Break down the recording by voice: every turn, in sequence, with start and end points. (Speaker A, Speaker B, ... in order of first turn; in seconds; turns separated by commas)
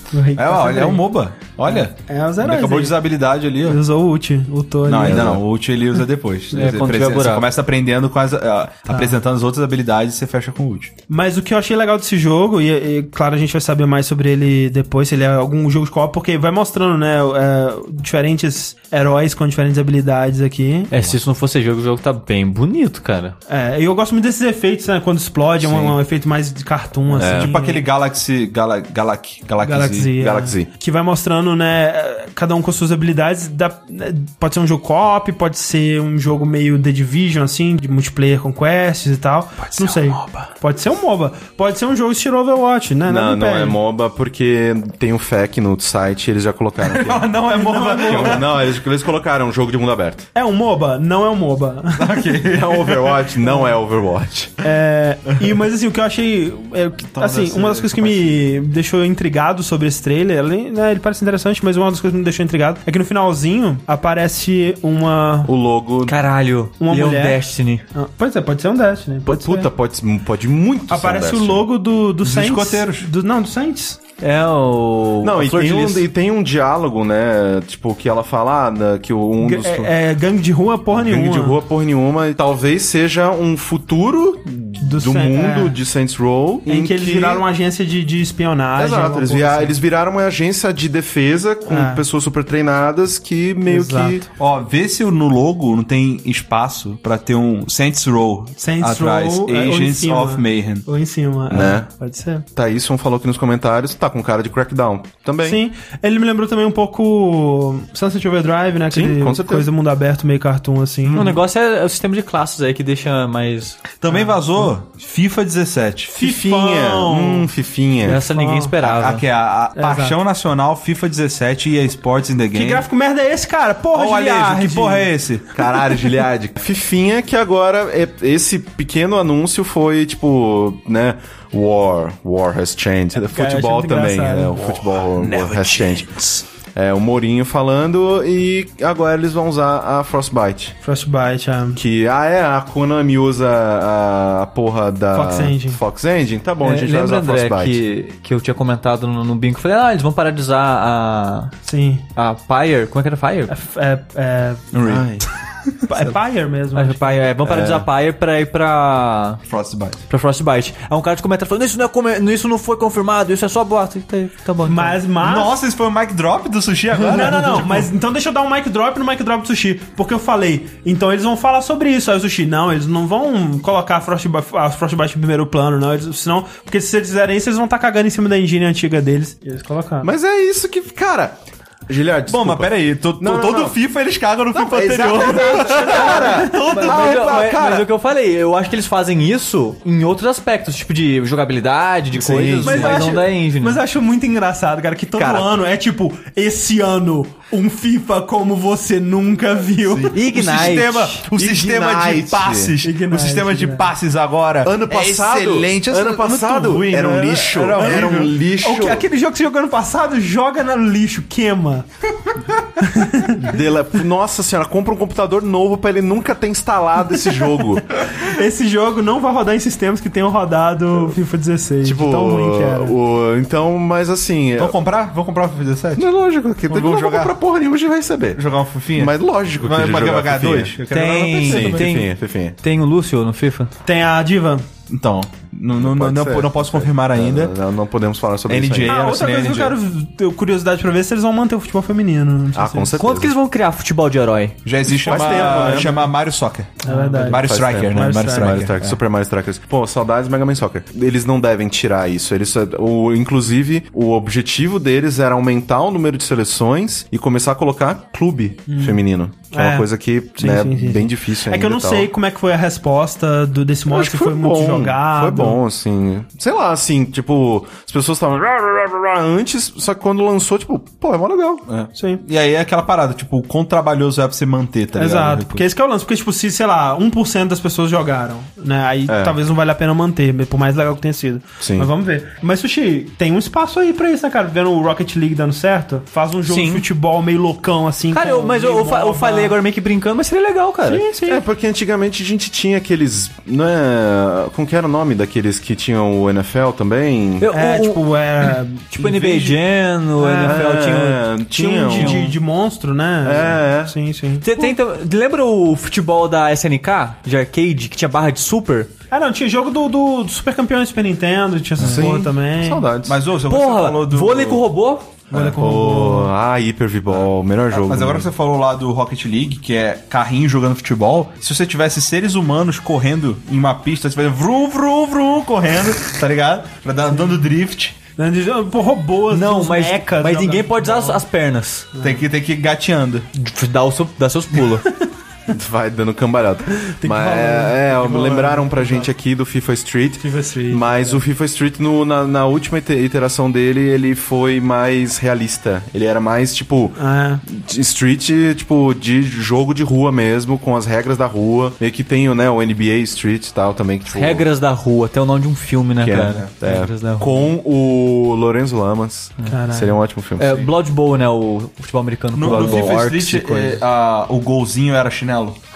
Speaker A: 0.1-1.0, Speaker B: 0.4-3.8, Speaker A: 1.7-3.0, Speaker A: 3.6-5.3, Speaker B: 4.8-10.9, Speaker C: 5.0-5.4, Speaker D: 6.5-7.5, Speaker A: 8.9-9.2, Speaker A: 11.1-20.9, Speaker D: 20.9-23.4, Speaker A: 23.5-27.8, Speaker B: 25.6-25.9, Speaker C: 27.2-27.5, Speaker B: 27.2-30.1, Speaker A: 29.6-43.8, Speaker C: 30.1-30.7, Speaker B: 39.6-40.5, Speaker C: 43.1-47.3, Speaker B: 46.8-48.6, Speaker A: 47.5-48.4, Speaker C: 48.0-50.3, Speaker A: 50.4-52.3, Speaker B: 52.0-53.3, Speaker C: 52.4-54.5, Speaker A: 54.6-65.5, Speaker B: 57.1-58.5, Speaker C: 65.5-66.2, Speaker D: 66.1-67.8, Speaker A: 66.8-67.4, Speaker A: 67.9-69.7, Speaker C: 69.3-71.7, Speaker A: 70.9-74.0, Speaker B: 72.2-73.1, Speaker D: 74.2-76.1, Speaker C: 75.2-79.9, Speaker A: 79.4-81.6, Speaker C: 80.9-87.5, Speaker A: 84.8-85.8, Speaker A: 86.7-89.8, Speaker C: 88.8-94.3, Speaker A: 91.7-92.0, Speaker A: 93.7-94.2, Speaker B: 94.3-100.9, Speaker A: 98.6-102.5, Speaker C: 101.5-101.9, Speaker C: 102.5-105.6, Speaker A: 105.4-111.4, Speaker C: 108.9-109.7, Speaker D: 111.1-113.8, Speaker B: 114.0-116.2, Speaker A: 114.1-114.7, Speaker A: 116.1-117.5, Speaker C: 116.2-118.2, Speaker D: 118.0-119.2, Speaker A: 118.1-118.7, Speaker B: 118.8-122.9, Speaker A: 119.8-120.2, Speaker A: 122.5-125.1, Speaker B: 123.9-126.1, Speaker C: 125.5-136.2, Speaker A: 133.2-134.7, Speaker B: 134.6-136.4, Speaker C: 136.7-140.8, Speaker A: 140.8-141.8, Speaker C: 141.8-147.8, Speaker A: 145.1-145.8, Speaker D: 146.6-151.5, Speaker A: 151.7-152.0, Speaker D: 152.2-153.5, Speaker A: 153.5-154.7, Speaker B: 154.7-155.2, Speaker C: 154.8-155.3, Speaker A: 155.9-157.2, Speaker D: 156.8-159.4, Speaker C: 157.5-157.8, Speaker B: 159.5-160.0, Speaker D: 160.1-165.0, Speaker A: 164.7-165.6, Speaker B: 165.2-167.9, Speaker A: 167.1-180.1, Speaker C: 180.0-183.8, Speaker B: 182.3-187.9, Speaker C: 184.5-187.6, Speaker A: 185.1-187.0, Speaker D: 186.6-193.8, Speaker C: 192.1-193.1, Speaker A: 192.6-201.2, Speaker C: 195.2-195.5, Speaker D: 200.1-201.2, Speaker B: 200.3-208.3, Speaker C: 201.3-202.7, Speaker A: 202.8-203.9, Speaker C: 204.6-209.1, Speaker A: 207.8-211.9, Speaker A: 212.8-213.5, Speaker C: 213.4-217.9, Speaker A: 218.1-223.0, Speaker C: 221.8-224.8, Speaker B: 224.6-226.1, Speaker C: 226.0-230.8, Speaker B: 226.7-227.4, Speaker B: 228.3-232.0, Speaker D: 230.9-233.7, Speaker C: 231.4-232.6, Speaker A: 233.8-234.7, Speaker B: 234.9-237.5, Speaker C: 235.8-239.1, Speaker B: 238.5-239.8, Speaker A: 238.9-243.0, Speaker C: 242.6-243.3, Speaker D: 243.0-244.6, Speaker B: 244.7-248.9, Speaker C: 244.9-246.1, Speaker A: 245.0-246.0, Speaker A: 246.8-248.7, Speaker C: 247.3-262.1, Speaker A: 258.7-259.0, Speaker A: 259.5-265.6, Speaker C: 263.9-271.6, Speaker B: 271.7-275.7, Speaker A: 271.9-272.2, Speaker A: 274.9-289.6, Speaker C: 279.1-279.4, Speaker C: 281.6-281.9, Speaker D: 286.4-286.9, Speaker D: 288.1-291.1, Speaker A: 290.8-291.4, Speaker C: 291.2-297.5, Speaker D: 297.4-301.3, Speaker A: 297.5-298.9, Speaker B: 299.2-299.5, Speaker A: 300.2-300.8, Speaker C: 300.5-302.3, Speaker A: 301.5-304.5, Speaker D: 301.9-302.3, Speaker C: 303.2-303.9, Speaker D: 304.4-308.9, Speaker A: 309.1-312.9, Speaker C: 311.8-313.2, Speaker B: 313.1-314.6, Speaker D: 313.5-315.1, Speaker A: 315.3-316.3, Speaker B: 315.3-315.6, Speaker C: 315.4-318.3, Speaker B: 317.1-328.0, Speaker A: 328.2-331.2, Speaker D: 329.3-331.9, Speaker A: 331.9-332.2, Speaker B: 332.0-333.3, Speaker D: 333.3-334.9, Speaker C: 335.5-354.5, Speaker A: 336.7-339.1, Speaker A: 340.2-341.2, Speaker A: 347.0-347.4, Speaker D: 354.1-357.5, Speaker C: 356.0-360.6, Speaker B: 356.1-356.5, Speaker A: 359.5-359.9, Speaker D: 360.4-363.8, Speaker B: 362.4-365.6, Speaker C: 362.4-363.0